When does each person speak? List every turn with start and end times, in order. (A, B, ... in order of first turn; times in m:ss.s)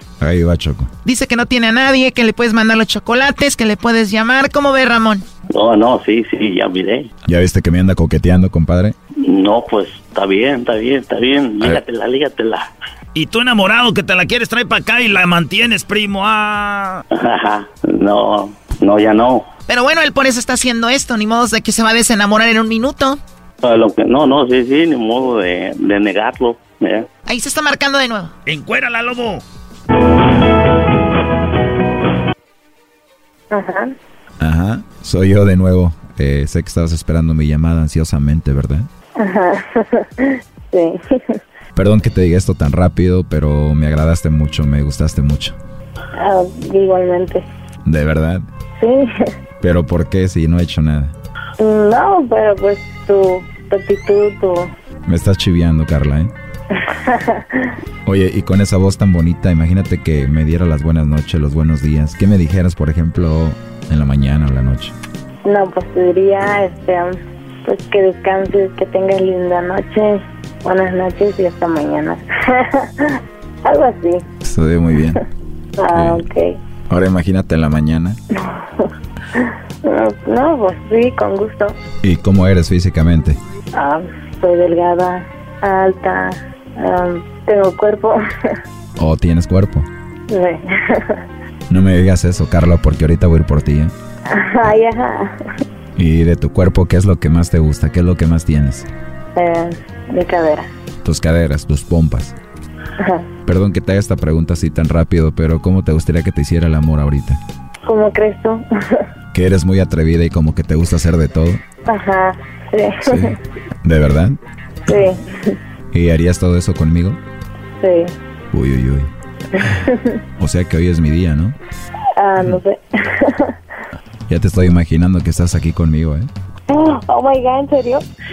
0:00.2-0:00.9 A
0:01.0-0:05.2 B
0:05.5-0:07.1 C
0:07.2-0:08.9 A
0:09.2-0:12.7 C
0:13.1-0:17.0 D
0:17.1-0:19.5 C
0:19.7-0:23.2 B
0:23.6-0:27.1 C
0:27.3-0:28.4 B
0:28.5-0:29.4 D
0:33.5-0:33.9 E
0:34.4-0:38.9 A
0:39.2-0:41.4 E
0:41.7-0:45.6 A
0:46.2-0:47.4 E
0:47.8-0:48.4 A
0:48.8-0:49.1 E
0:49.6-0:51.1 A
0:51.6-0:54.7 E
0:55.0-0:56.3 A
0:57.0-0:57.4 E
0:58.0-1:05.0 A
1:05.4-1:13.1 E
1:13.6-1:14.2 E
1:14.4-1:15.2 A
1:15.8-1:16.6 E
1:15.9-1:16.2 A
1:16.9-1:18.2 A
1:18.5-1:18.9 E
1:19.8-1:21.8 E
1:22.0-1:23.4 A
1:23.7-1:28.2 E
1:29.0-1:29.9 A
1:30.3-1:31.2 E
1:31.7-1:33.9 A
1:34.3-1:35.4 E
1:36.0-1:38.9 A
1:39.4-1:40.7 E
1:41.0-1:42.3 A
1:43.0-1:43.3 E
1:43.4-1:47.4 A
1:47.8-1:49.0 E
1:49.3-1:51.6 A
1:51.8-1:53.3 E
1:53.0-1:54.4 A
1:54.9-1:55.6 E
1:55.9-1:57.2 A
1:57.8-1:58.1 E
1:58.5-1:59.1 A
1:59.6-2:00.2 E
2:00.4-2:01.6 A
2:02.2-2:03.5 E
2:04.3-2:06.3 A
2:06.7-2:08.0 E